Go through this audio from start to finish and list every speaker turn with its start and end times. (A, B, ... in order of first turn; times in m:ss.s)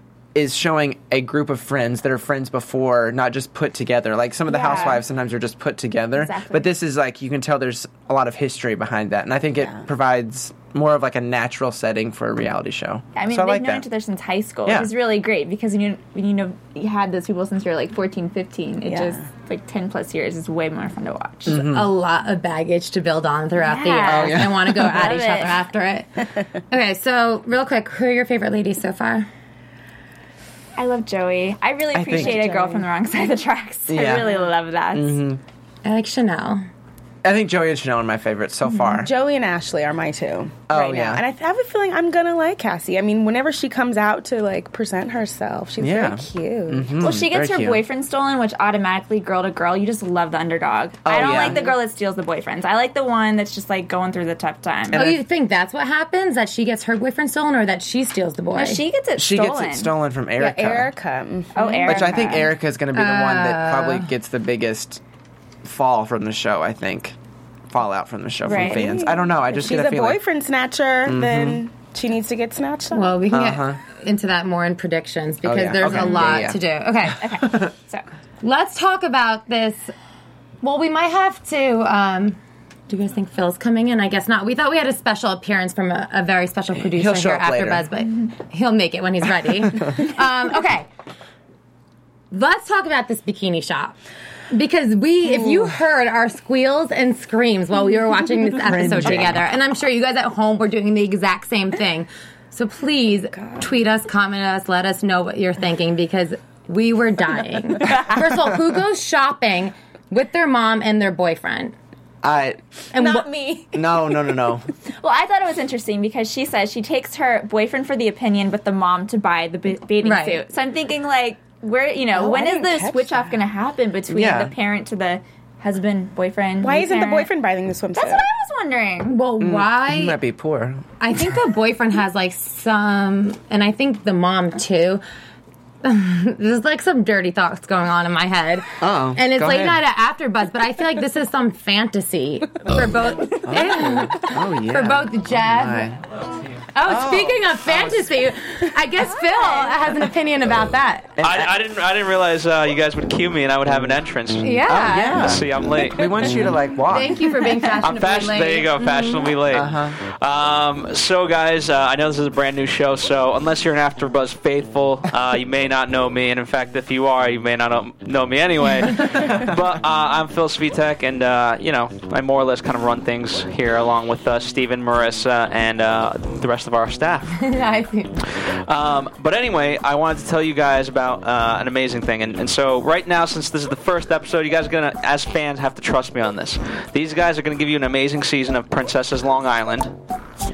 0:00.3-0:13.8 A
0:04.5-0:05.0 B
0:06.2-0:06.7 B
0:13.2-0:21.6 B
0:14.7-0:14.9 A
0:18.9-0:19.2 C
0:21.5-0:21.9 A
0:21.5-0:29.3 D
0:23.6-0:25.6 B
0:24.0-0:25.2 A
0:30.8-0:35.2 B
0:31.9-0:32.4 A
0:32.1-0:32.9 C
0:33.9-0:34.3 A
0:34.9-0:35.4 A
0:35.8-0:36.6 D
0:37.2-0:39.1 A
0:38.9-0:47.1 C
0:40.7-0:41.2 A
0:45.8-0:47.8 A
0:47.0-0:55.1 B
0:51.0-0:51.6 A
0:51.3-0:51.8 C
0:54.9-0:55.2 A
0:54.9-0:58.8 D
0:58.6-1:00.0 B
0:59.2-1:00.9 A
1:00.4-1:02.1 C
1:01.5-1:02.5 B
1:01.6-1:02.3 D
1:01.8-1:05.0 A
1:02.9-1:04.1 D
1:05.6-1:07.2 A
1:07.7-1:10.2 A
1:08.4-1:08.9 B
1:08.5-1:13.2 C
1:11.1-1:11.6 A
1:12.9-1:17.3 D
1:13.3-1:13.8 A
1:15.4-1:17.7 A
1:17.2-1:18.0 B
1:18.4-1:19.9 D
1:20.6-1:22.4 D
1:22.9-1:30.9 D
1:26.8-1:27.9 A
1:32.3-1:34.0 D
1:34.5-1:51.8 D
1:38.6-1:39.4 A
1:52.2-1:52.7 A
1:52.9-1:53.3 D
1:53.7-1:54.7 A
1:55.0-2:07.3 B
2:00.0-2:00.4 D
2:02.1-2:03.3 C
2:04.1-2:04.5 A
2:06.6-2:08.3 C
2:08.0-2:09.2 B
2:09.1-2:10.2 D
2:09.4-2:10.9 A
2:11.0-2:15.0 D
2:15.8-2:25.9 D
2:18.8-2:19.8 A
2:23.4-2:26.0 A
2:26.8-2:31.1 D
2:26.8-2:28.3 A
2:31.2-2:31.6 A
2:31.2-2:36.4 E
2:34.4-2:35.3 D
2:34.7-2:37.4 A
2:36.9-2:39.3 D
2:37.8-2:57.4 E
2:39.5-2:40.0 A
2:49.2-2:49.5 A
2:57.4-2:58.2 D
2:58.3-3:09.9 E